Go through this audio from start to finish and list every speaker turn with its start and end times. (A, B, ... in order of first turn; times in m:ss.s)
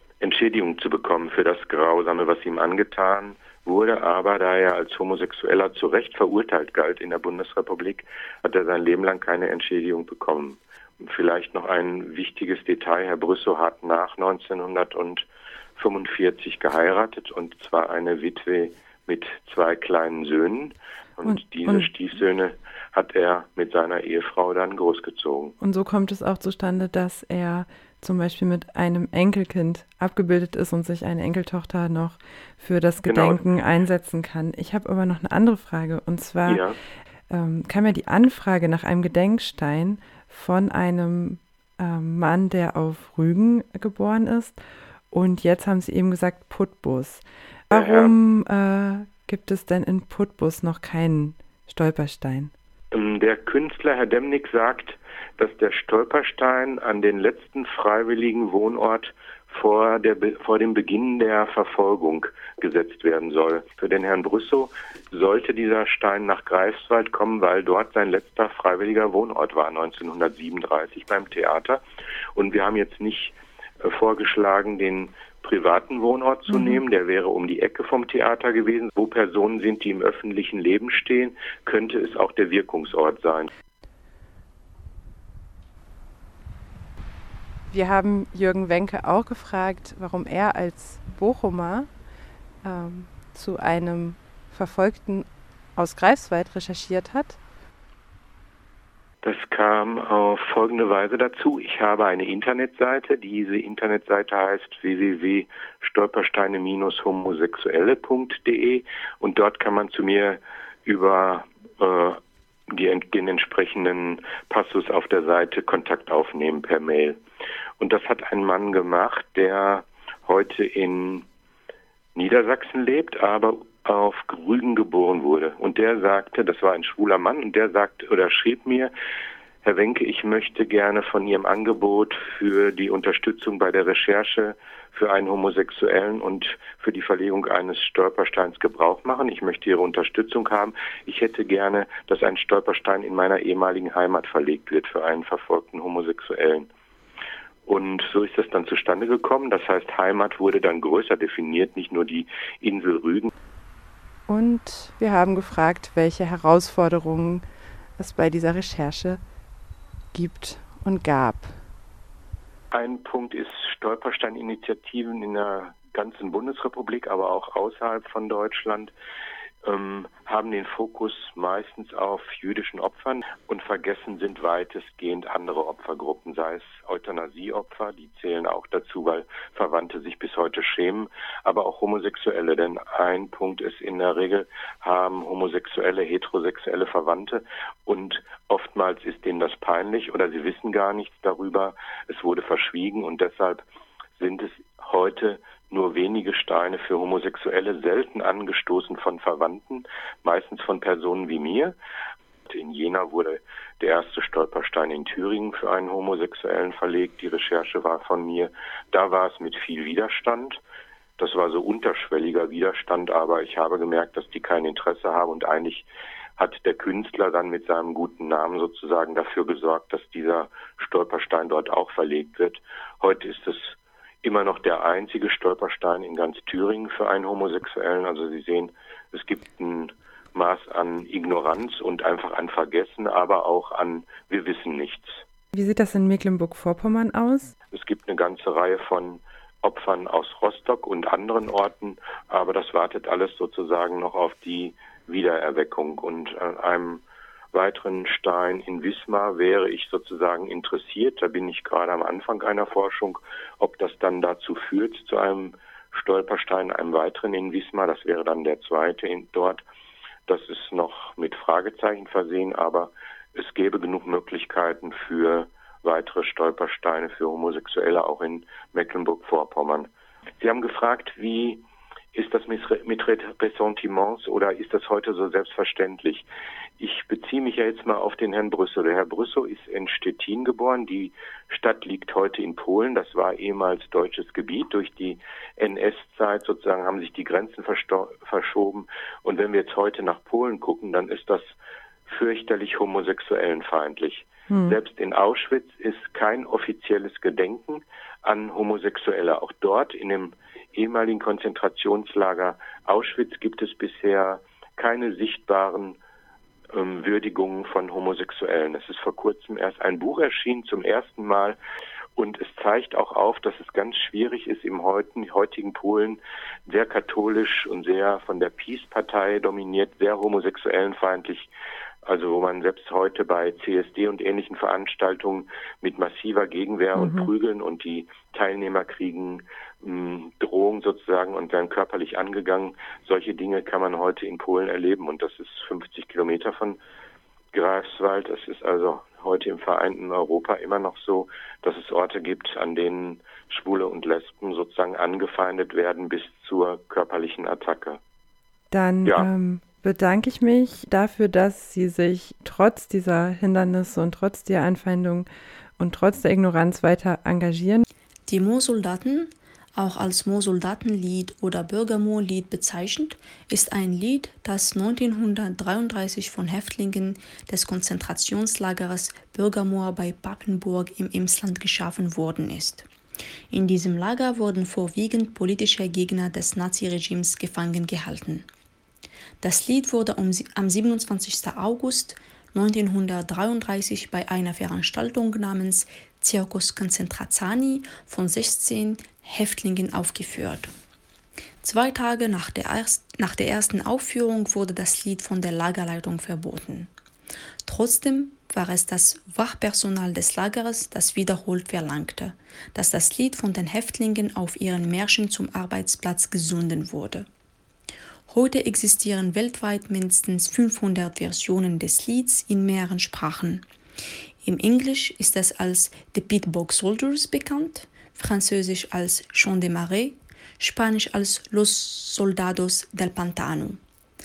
0:00.2-0:25.6 A
0:21.2-0:21.9 B
0:25.6-0:36.6 B
0:33.0-0:33.4 A
0:36.5-0:36.8 A
0:37.3-0:44.6 B
0:45.1-0:52.5 B
0:47.7-0:48.2 A
0:52.9-1:11.8 A
1:12.4-1:23.5 A
1:16.5-1:16.8 B
1:27.7-1:31.9 B
1:32.6-1:37.4 B
1:39.2-1:52.2 A
1:52.7-1:57.2 A
1:57.8-2:01.3 A
2:02.2-2:08.9 A
2:09.6-2:26.7 A
2:27.7-2:33.3 A
2:34.3-2:37.4 B
2:38.0-2:39.2 B
2:40.1-2:41.6 B
2:42.7-2:48.9 A
2:49.6-3:13.6 A
3:14.2-3:21.8 A
3:22.5-3:30.6 A
3:31.2-3:55.2 A
3:55.5-3:57.5 B
3:57.7-4:19.6 A
4:20.3-4:31.6 A
4:32.1-4:36.3 A
4:36.8-4:51.5 A
4:52.1-5:06.0 A
4:54.5-4:54.8 B
5:06.7-5:11.6 A
5:12.2-5:21.5 A
5:22.0-5:36.8 A
5:27.0-5:27.3 B
5:37.5-5:48.0 A
5:48.7-5:57.8 B
5:58.3-6:12.9 C
6:13.5-6:18.5 C
6:19.4-6:30.7 C
6:31.6-6:36.9 C
6:37.6-6:47.3 C
6:48.3-6:53.7 C
6:54.4-7:03.8 C